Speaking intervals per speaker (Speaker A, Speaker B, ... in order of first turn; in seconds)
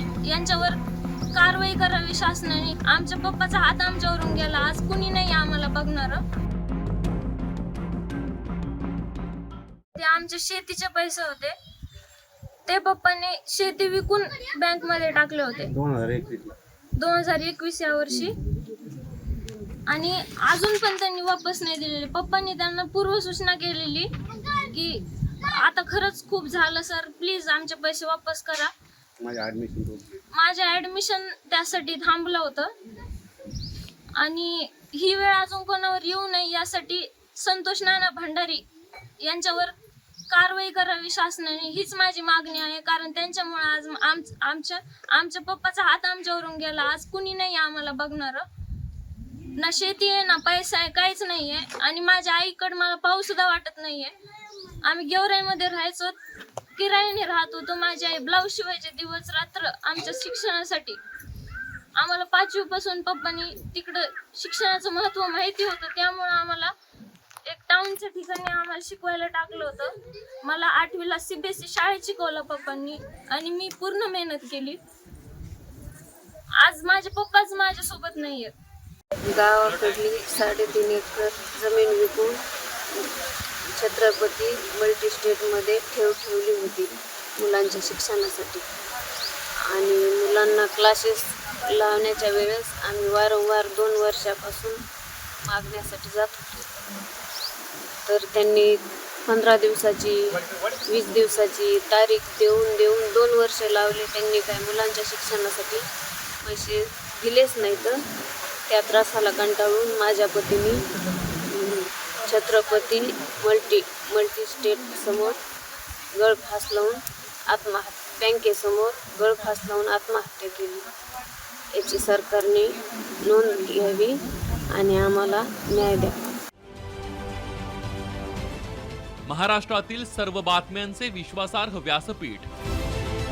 Speaker A: 0.2-0.8, 1.3-6.2, 9.9-11.5, 12.7-15.7, 17.0-18.3, 19.9-28.7, 30.3-32.7, 34.1-38.6, 39.2-39.7, 40.3-48.4, 49.6-54.1, 54.8-56.1, 56.8-61.0, 62.0-66.7, 67.4-74.8, 76.6-78.5
Speaker B: 15.7-16.6, 29.2-30.2
Speaker C: 79.2-82.4, 83.7-88.6, 89.6-94.8, 95.5-97.0, 98.0-100.2, 100.9-105.8, 106.4-108.0, 108.7-110.8, 111.5-115.4, 116.2-120.9, 121.7-124.2, 124.7-126.2
Speaker D: 79.7-80.0, 129.2-132.5